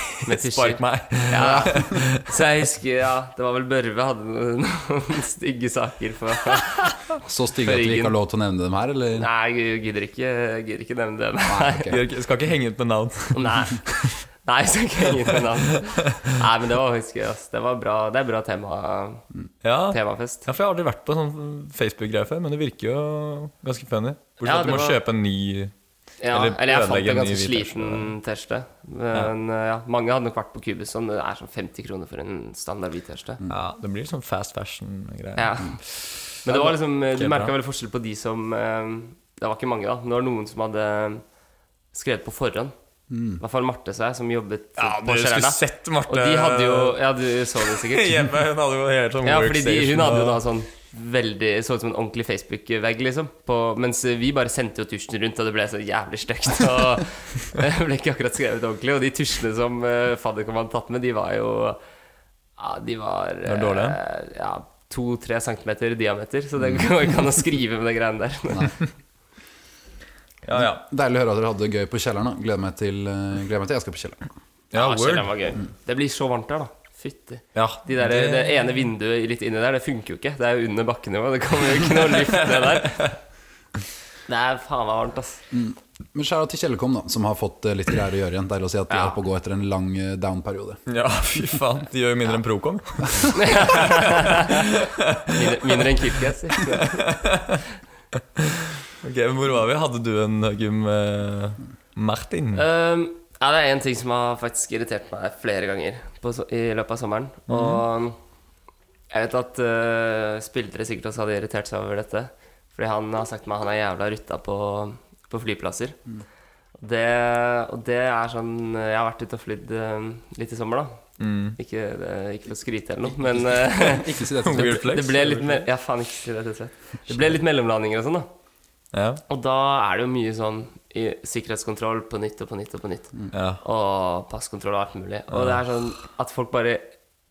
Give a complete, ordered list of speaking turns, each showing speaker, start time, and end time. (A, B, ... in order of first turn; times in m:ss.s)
0:00.1-0:02.3 A
0:00.2-0:07.1 B
0:01.3-0:02.0 C
0:07.2-0:09.3 C
0:07.6-0:08.2 B
0:09.2-0:11.9 B
0:11.5-0:12.0 C
0:11.9-0:14.1 A
0:13.3-0:19.2 B
0:19.6-0:25.7 A
0:19.9-0:20.4 B
0:24.4-0:25.0 B
0:26.2-0:33.4 B
0:26.3-0:28.1 A
0:33.5-0:37.5 A
0:35.4-0:35.8 B
0:36.4-0:41.2 B
0:41.9-0:42.7 B
0:43.1-0:43.4 C
0:43.4-0:48.3 B
0:44.8-0:47.0 A
0:47.7-0:50.4 A
0:49.2-1:01.8 B
1:02.6-1:08.8 B
1:03.4-1:04.0 A
1:10.4-1:10.8 A
1:10.5-1:14.3 C
1:14.7-1:15.3 A
1:14.7-1:23.2 B
1:17.6-1:18.7 A
1:22.5-1:22.8 A
1:24.3-1:25.4 B
1:25.5-1:30.8 C
1:28.9-1:29.2 B
1:30.9-1:35.8 A
1:33.3-1:34.7 B
1:35.3-1:37.0 B
1:36.7-1:37.6 A
1:38.2-1:42.6 A
1:42.6-1:48.2 B
1:47.5-1:47.8 A
1:49.1-1:56.0 B
1:56.8-2:01.0 B
2:01.2-2:01.6 A
2:01.6-2:08.3 B
2:03.7-2:04.8 C
2:04.4-2:05.6 A
2:08.9-2:09.2 A
2:09.3-2:16.9 B
2:13.3-2:13.6 A
2:15.3-2:15.6 A